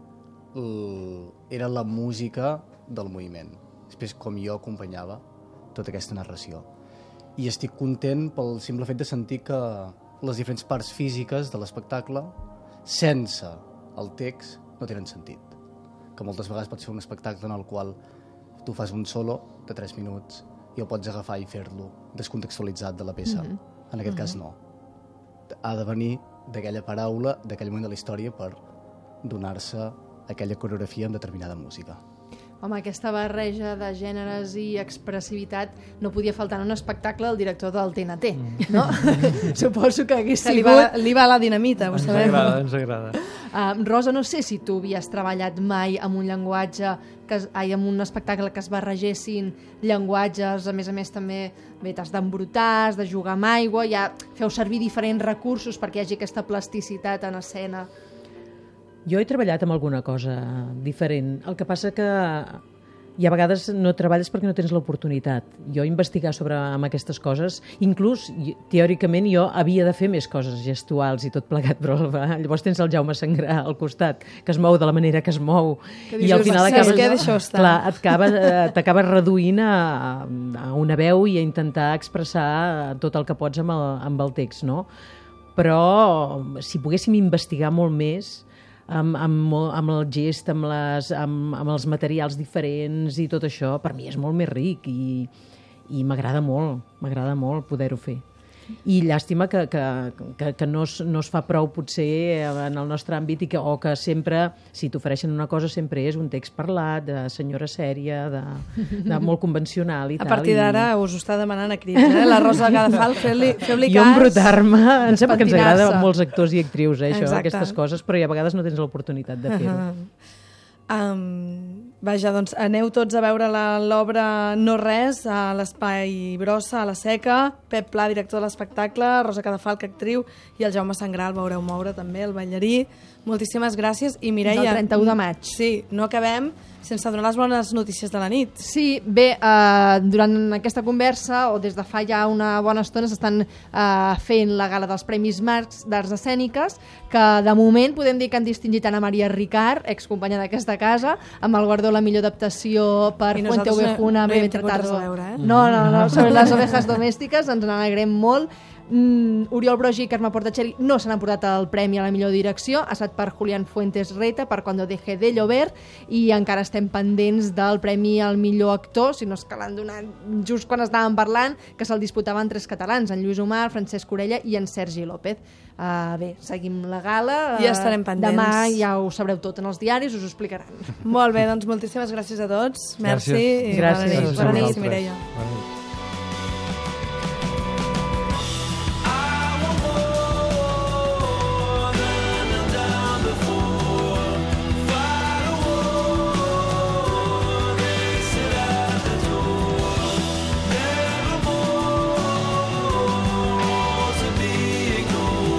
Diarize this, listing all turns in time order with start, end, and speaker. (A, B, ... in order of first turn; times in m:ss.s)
0:00.5-0:06.7 A
0:07.4-0:15.6 A
0:16.1-0:18.0 A
0:18.6-0:24.6 A
0:25.5-0:28.6 A
0:29.2-0:32.0 A
0:32.6-0:41.0 B
0:38.4-0:39.5 C
0:40.4-0:42.6 D
0:41.9-0:43.2 C
0:43.3-0:57.9 B
0:59.0-1:02.6 E
1:03.2-1:24.9 E
1:16.1-1:17.3 B
1:16.2-1:18.0 D
1:25.6-1:35.3 E
1:35.9-1:38.2 E
1:38.8-1:50.9 E
1:50.2-1:54.6 D
1:52.2-1:52.6 E
1:53.8-1:59.8 E
1:55.3-1:56.1 B
1:57.1-1:57.8 D
1:59.5-2:00.1 D
2:00.9-2:18.6 D
2:14.4-2:15.6 B
2:18.6-3:01.0 B
2:33.3-2:35.4 D
2:35.4-2:35.9 C
2:36.2-2:36.5 D
2:57.5-2:58.8 D
3:01.0-3:05.3 D
3:03.0-3:05.7 C
3:03.6-3:04.8 E
3:24.3-3:25.1 C